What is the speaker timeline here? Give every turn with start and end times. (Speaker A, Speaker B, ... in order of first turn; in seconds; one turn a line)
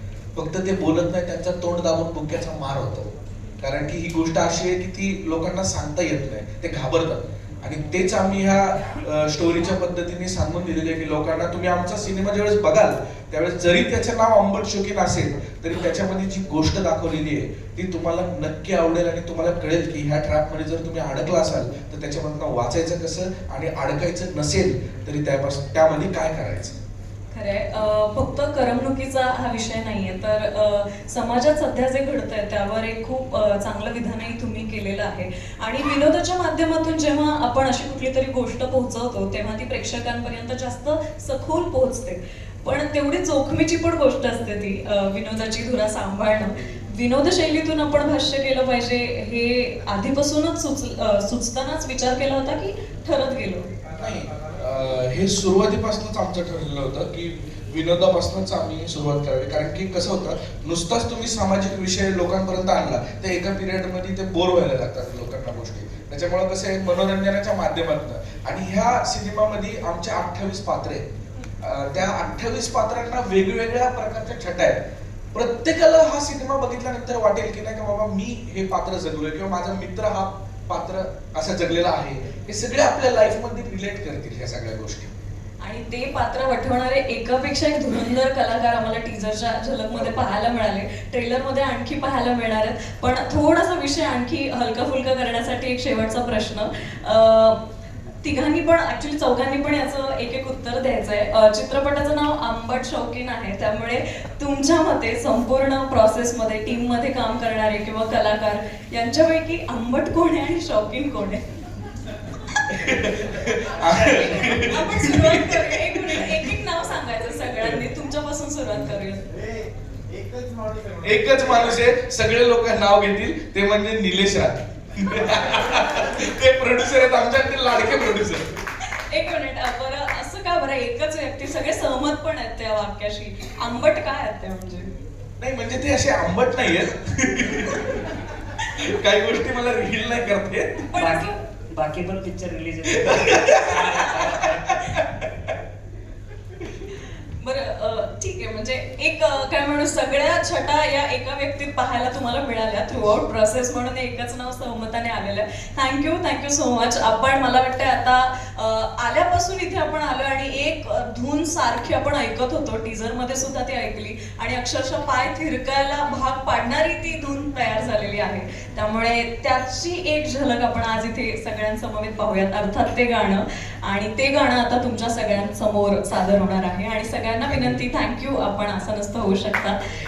Speaker A: 0.3-26.8
Speaker B: 27.3-53.6
Speaker A: 53.9-71.0
Speaker A: 71.6-74.8
Speaker A: 75.3-85.1
Speaker B: 85.6-97.6
Speaker B: 98.2-111.4
Speaker A: 112.7-115.6
Speaker C: 113.8-114.6
Speaker B: 114.0-119.2
Speaker A: 121.0-128.5
Speaker B: 128.9-134.9
Speaker A: 135.4-138.0
Speaker A: 138.6-140.9
Speaker B: 140.9-141.4
Speaker C: 141.0-144.8
Speaker A: 142.9-145.1
Speaker B: 147.4-179.8